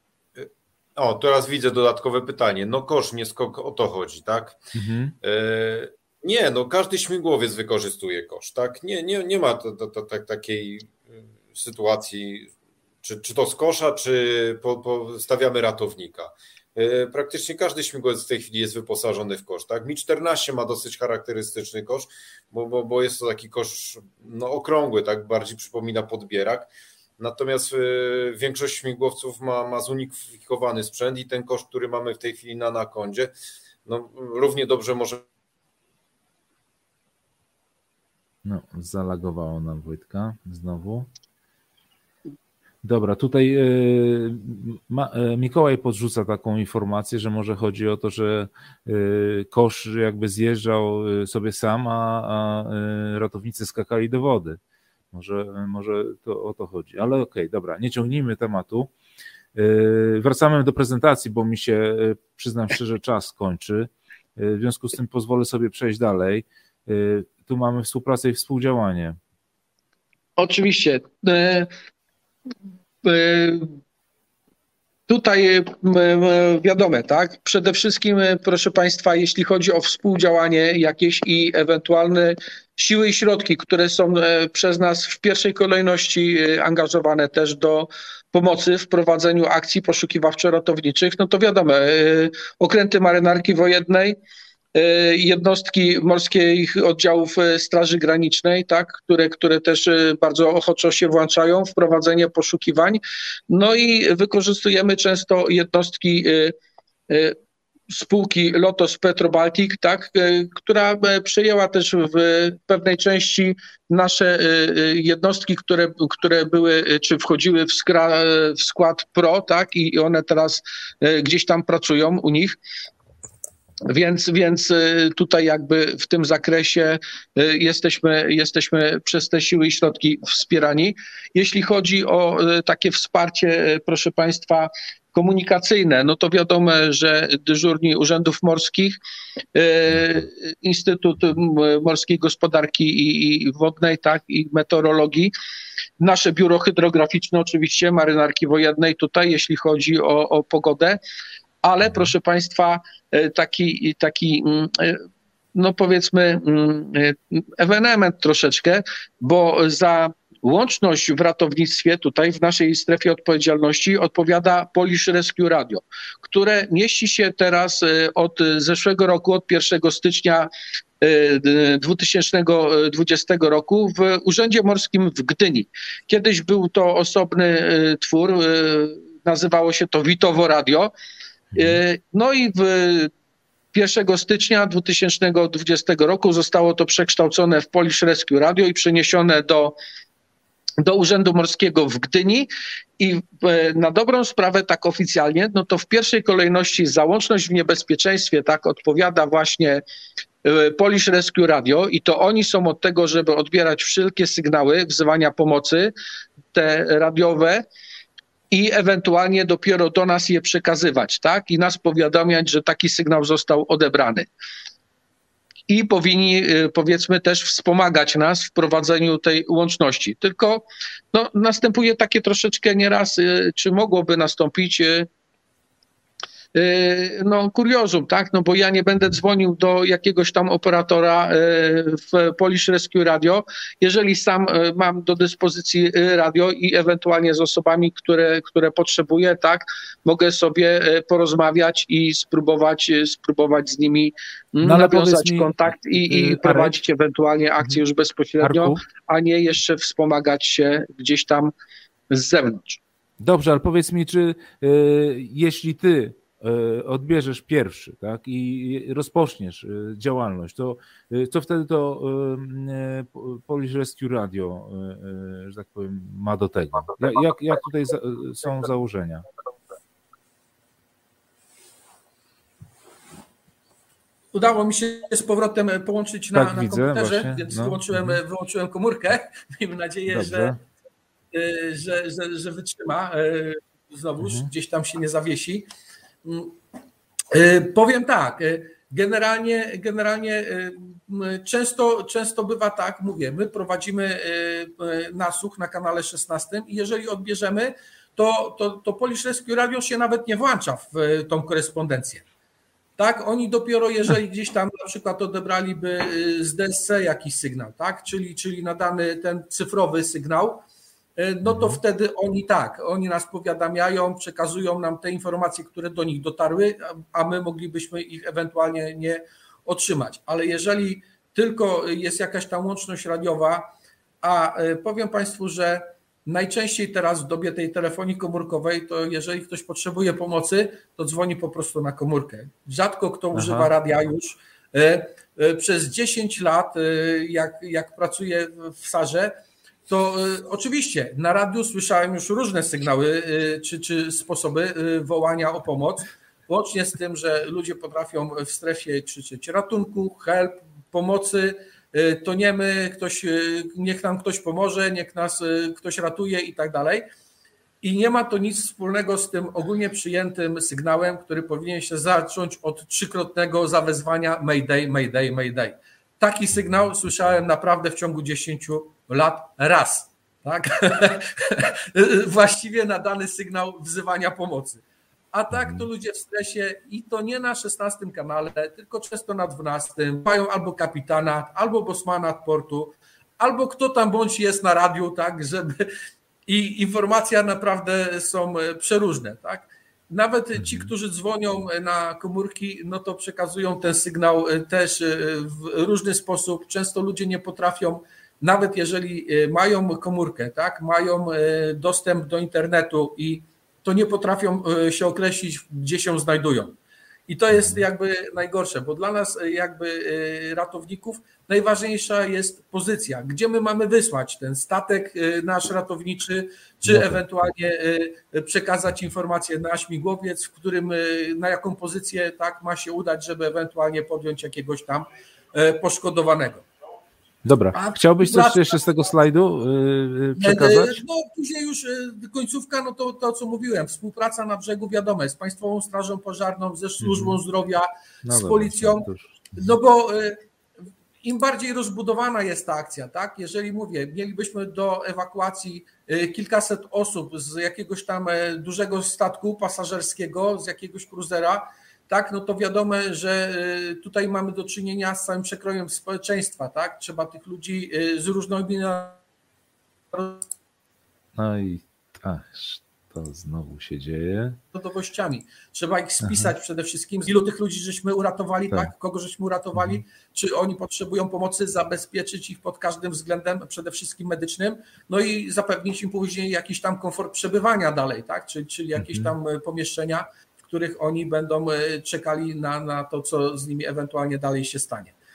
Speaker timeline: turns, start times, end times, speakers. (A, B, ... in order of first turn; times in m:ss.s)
0:00.4-0:04.6 A
0:04.8-0:05.1 B
0:05.2-0:33.3 A
0:33.9-0:35.2 A
0:38.4-0:41.1 B
0:42.8-0:54.6 B
0:55.1-0:58.9 B
0:59.6-1:09.2 B
1:10.4-1:11.7 C
1:13.0-1:13.7 C
1:15.1-1:34.2 C
1:34.8-1:46.5 C
1:47.1-1:47.4 C
1:47.9-2:02.6 C
2:03.9-2:19.0 C
2:19.6-2:25.3 C
2:26.0-2:31.0 C
2:31.6-2:50.5 C
2:51.0-3:00.9 C
3:01.5-3:01.8 B
3:01.6-3:03.1 C
3:03.7-3:09.8 C
3:10.8-3:12.5 C
3:13.0-3:19.8 C
3:20.4-3:25.9 C
3:26.5-3:27.6 C
3:28.5-3:34.3 C
3:35.7-3:45.1 C
3:46.6-4:11.5 C
4:04.6-4:06.8 B
4:08.4-4:08.8 B
4:12.1-4:12.8 C
4:13.2-4:29.3 B
4:34.3-4:40.5 C
4:36.3-4:38.2 B
4:40.1-4:40.6 B
4:41.3-4:45.7 C
4:44.2-4:44.5 B
4:46.2-4:46.6 C
4:47.3-5:02.3 C
5:03.0-5:10.7 C
5:11.2-5:23.7 C
5:11.5-5:11.8 B
5:24.2-5:39.4 C
5:33.3-5:33.7 B
5:39.9-5:57.1 C
5:57.8-6:14.8 C
6:15.3-6:25.9 C
6:15.5-6:15.8 B
6:26.5-7:06.7 C
6:30.6-6:30.9 B
6:47.5-6:47.8 B
6:56.8-6:57.5 B
7:07.4-7:11.0 B
7:07.7-7:08.8 C
7:10.4-7:20.4 C
7:17.0-7:17.4 B
7:18.2-7:19.3 B
7:21.2-7:39.2 C
7:40.1-7:40.4 C
7:41.4-7:44.6 B
7:44.7-8:05.1 C
7:46.2-7:46.5 B
7:49.7-7:50.0 B
7:59.0-7:59.3 B